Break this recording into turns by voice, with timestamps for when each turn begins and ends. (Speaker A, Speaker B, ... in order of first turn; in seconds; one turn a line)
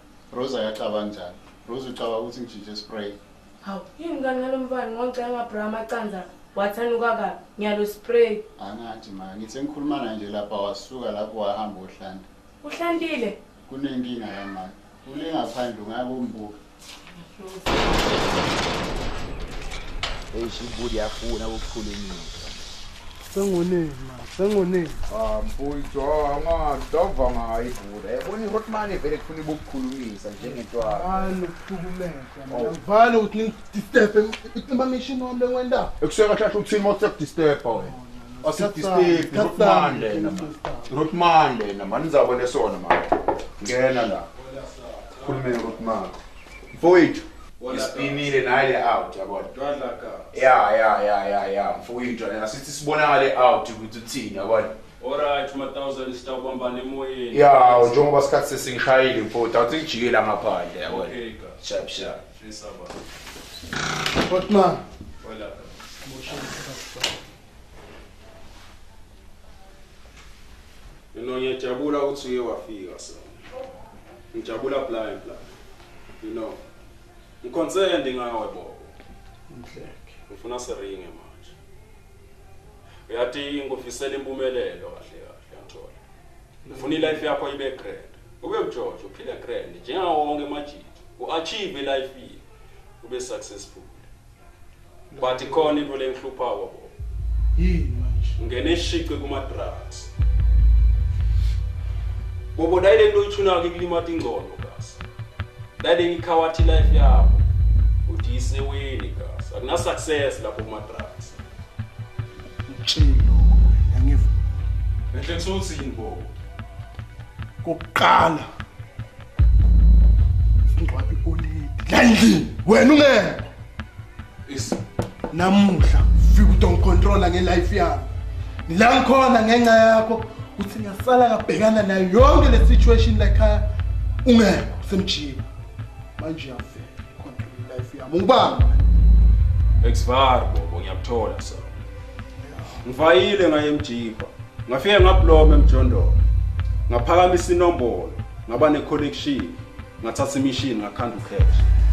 Speaker A: 0.3-3.2
Speaker B: 3.6-8.4
Speaker A: 8.6-12.2
Speaker B: 12.6-13.4
Speaker A: 13.7-16.6
Speaker C: 20.3-22.6
Speaker D: 23.3-25.0
Speaker C: 25.1-31.4
Speaker D: 30.4-35.9
Speaker C: 32.5-32.8
Speaker C: 36.0-44.3
Speaker D: 37.7-41.0
Speaker E: 44.4-45.4
Speaker C: 45.2-46.2
Speaker C: 46.8-49.5
Speaker E: 47.6-48.4
Speaker E: 49.5-50.3
Speaker C: 50.3-54.8
Speaker E: 55.0-58.0
Speaker C: 57.3-62.2
Speaker E: 60.8-63.0
Speaker D: 64.2-64.8
Speaker E: 65.2-65.8
Speaker D: 66.0-67.1
Speaker E: 71.1-73.4
Speaker E: 74.3-75.5
Speaker E: 76.2-76.6
Speaker E: 77.4-78.9
Speaker D: 79.5-80.1
Speaker E: 80.3-81.5
Speaker E: 83.1-86.0
Speaker D: 86.7-87.2
Speaker E: 86.7-92.4
Speaker E: 93.0-94.1
Speaker D: 95.1-95.8
Speaker E: 95.2-96.9
Speaker D: 97.5-98.4
Speaker E: 98.4-100.1
Speaker E: 102.5-105.0
Speaker E: 105.8-107.4
Speaker E: 108.1-111.4
Speaker D: 112.7-114.3
Speaker E: 115.1-116.3
Speaker D: 117.6-118.5
Speaker D: 120.7-123.5
Speaker E: 124.5-124.8
Speaker D: 125.3-128.1
Speaker D: 128.7-133.7
Speaker D: 134.2-135.5
Speaker D: 136.2-138.8
Speaker E: 139.8-141.7
Speaker D: 142.4-142.8
Speaker E: 142.8-146.2
Speaker E: 146.9-151.6